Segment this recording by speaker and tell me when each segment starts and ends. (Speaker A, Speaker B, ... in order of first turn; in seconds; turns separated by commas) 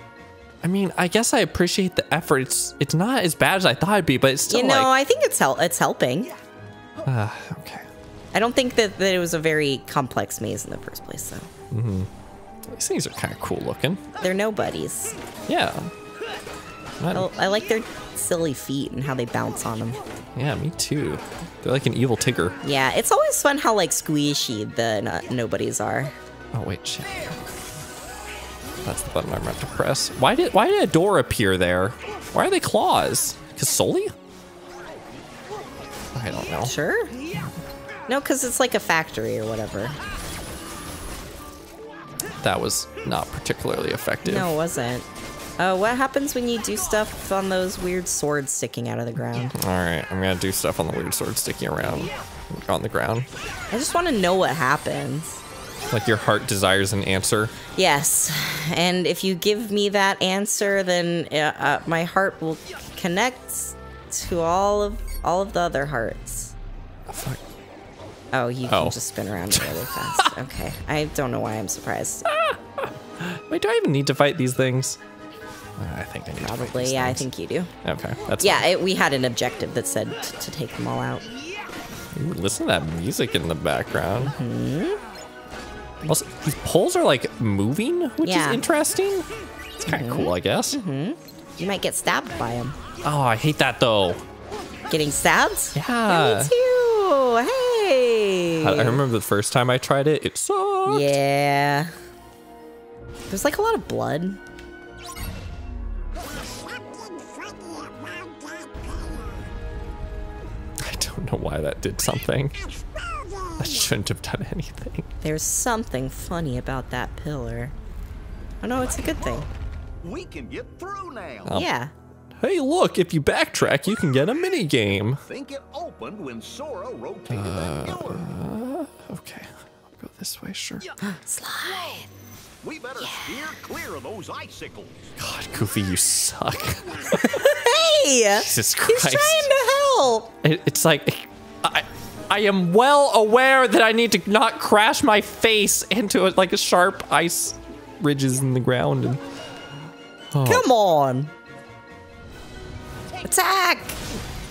Speaker A: 0.6-4.9, Speaker B: 4.5-6.3, Speaker A: 7.0-7.9, Speaker B: 8.3-11.5, Speaker A: 11.7-12.1, Speaker A: 12.7-14.0, Speaker B: 14.2-15.2, Speaker A: 15.5-15.9, Speaker A: 17.0-17.3, Speaker B: 17.1-20.0, Speaker A: 20.4-22.6, Speaker B: 22.6-26.1, Speaker A: 26.5-27.4, Speaker A: 28.8-34.1, Speaker A: 36.1-36.7, Speaker B: 36.6-37.1, Speaker B: 38.1-40.0, Speaker A: 42.4-44.5, Speaker B: 44.2-45.1, Speaker B: 45.6-49.5, Speaker A: 49.4-53.3, Speaker B: 53.7-55.4, Speaker A: 55.9-57.5, Speaker B: 57.8-66.5, Speaker A: 67.1-67.4, Speaker B: 68.3-72.3, Speaker A: 68.7-69.0, Speaker A: 69.5-70.3, Speaker A: 72.3-75.0, Speaker A: 75.8-77.3, Speaker B: 76.4-77.7, Speaker A: 77.8-78.7, Speaker B: 78.4-81.3, Speaker A: 82.1-84.3, Speaker B: 84.2-85.0, Speaker A: 86.0-89.3, Speaker B: 88.2-88.6, Speaker A: 89.8-90.8, Speaker B: 89.9-92.8, Speaker A: 93.0-94.2, Speaker B: 94.9-99.0, Speaker A: 95.8-96.5, Speaker A: 98.6-101.2, Speaker B: 100.9-101.9, Speaker B: 103.3-104.4, Speaker A: 110.8-112.6, Speaker A: 113.5-115.1, Speaker B: 115.2-117.8, Speaker B: 118.6-119.5, Speaker C: 120.0-121.6, Speaker B: 121.5-121.9, Speaker A: 122.4-125.2, Speaker C: 125.3-128.3, Speaker A: 127.3-130.9, Speaker B: 131.0-132.1, Speaker C: 132.6-135.2, Speaker B: 133.0-133.3, Speaker A: 135.2-137.4, Speaker B: 137.1-140.3, Speaker A: 138.3-139.5, Speaker A: 140.4-149.2, Speaker A: 150.3-150.7, Speaker B: 150.4-151.3, Speaker B: 153.2-154.0